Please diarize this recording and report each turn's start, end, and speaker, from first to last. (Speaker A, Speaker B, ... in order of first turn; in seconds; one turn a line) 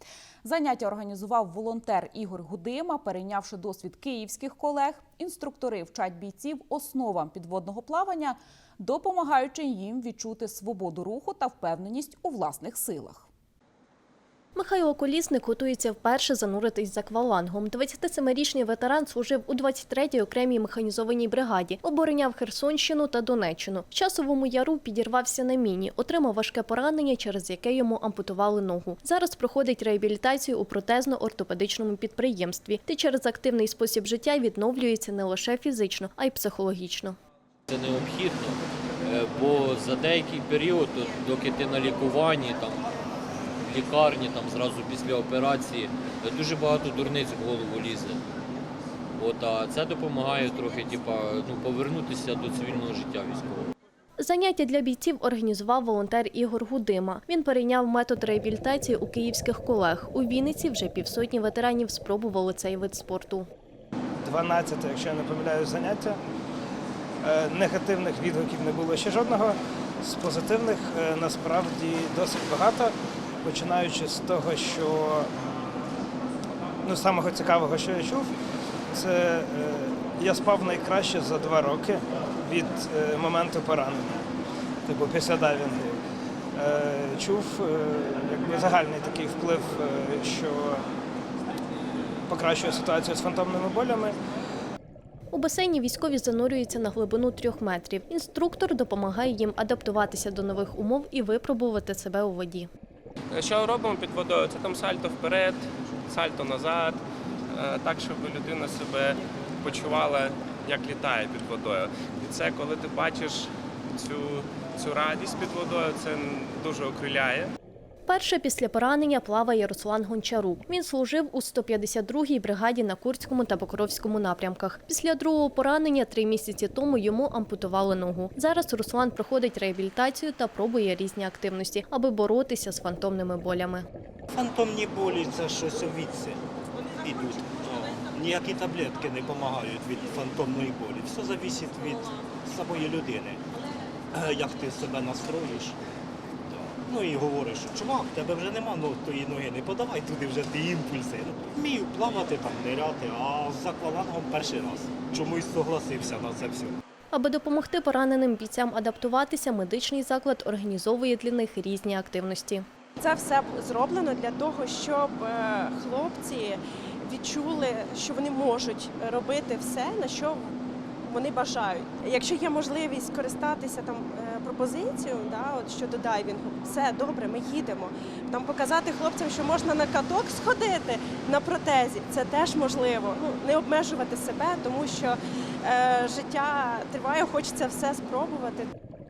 Speaker A: 0.4-13.3
Speaker B: 14.6-37.2
Speaker C: 37.7-42.9
Speaker C: 43.6-48.2
Speaker C: 49.2-53.7
Speaker B: 54.2-63.5
Speaker D: 64.2-66.2
Speaker D: 67.2-75.3
Speaker D: 76.8-78.3
Speaker D: 78.9-84.2
Speaker D: 84.9-86.0
Speaker D: 86.5-90.8
Speaker D: 92.3-94.2
Speaker B: 95.3-102.7
Speaker E: 103.3-117.5
Speaker B: 118.1-133.8
Speaker F: 134.3-136.4
Speaker F: 137.0-143.4
Speaker F: 144.1-145.8
Speaker F: 146.8-156.8
Speaker B: 157.1-162.7
Speaker G: 163.0-188.7